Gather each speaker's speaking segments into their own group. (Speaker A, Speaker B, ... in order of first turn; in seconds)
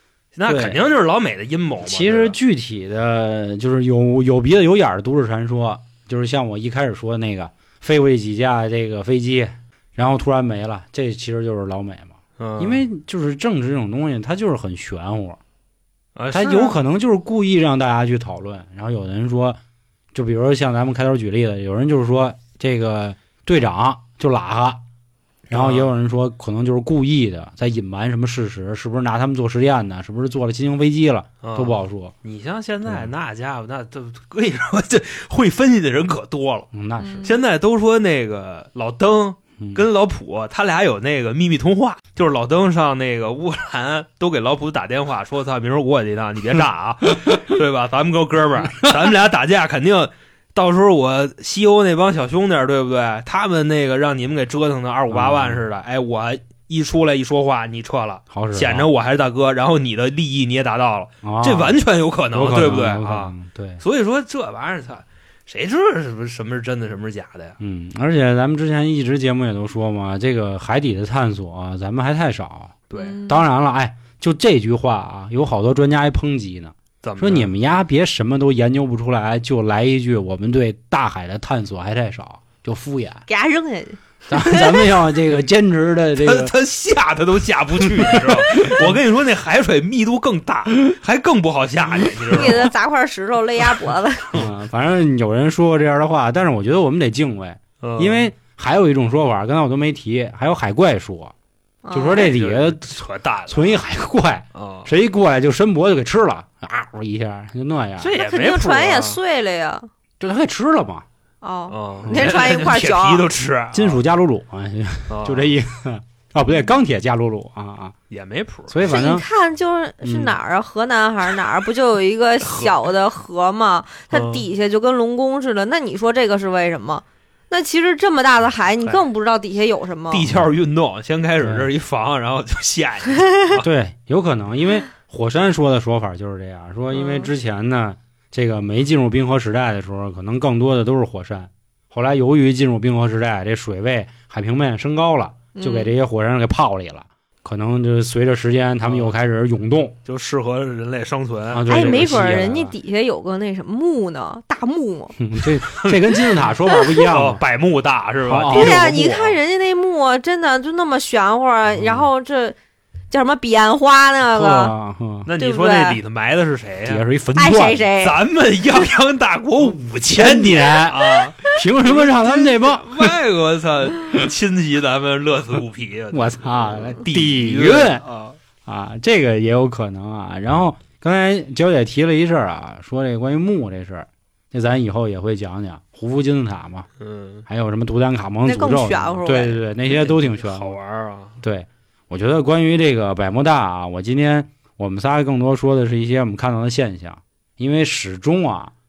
Speaker A: 0.3-2.4, 12.4-12.8, 16.1-16.7, 25.5-25.9, 31.4-36.7, 37.2-67.6, 72.9-73.2, 77.0-77.5, 86.2-92.7, 97.8-98.3, 102.1-103.8, 104.5-104.9, 108.0-109.2, 111.7-114.0, 115.1-115.5, 118.1-118.8, 122.4-122.8, 124.1-124.4, 130.1-133.7, 148.8-149.1, 150.1-152.1, 155.7-156.2, 157.0-159.4, 165.2-167.0, 168.0-178.4, 187.0-187.4, 189.9-191.4
Speaker B: 0.5-0.8, 1.8-15.4, 16.3-19.6, 20.1-24.8, 25.5-32.1, 36.7-37.3, 55.1-55.6, 58.3-58.9, 61.2-61.8, 62.3-63.8, 67.6-83.2, 84.3-86.5, 87.8-89.0, 94.3-101.3, 101.9-108.1, 110.2-111.0, 113.7-117.9, 118.7-119.2, 120.0-120.3, 131.4-131.7, 133.6-149.9, 151.5-152.7, 155.2-157.4, 158.2-158.8, 161.7-162.1, 164.3-165.3, 166.8-167.9, 170.1-173.1, 176.1-178.0, 178.7-186.9, 187.5-190.8, 191.4-198.7
Speaker C: 37.0-37.3, 73.0-73.4, 83.3-84.7, 92.3-94.5, 101.8-102.3, 108.1-109.9, 111.4-113.3, 118.8-130.3, 136.9-137.3, 145.5-145.9, 151.7-155.2, 156.7-157.0, 158.5-162.6, 163.1-164.7, 165.4-166.0, 167.3-168.2, 188.4-189.6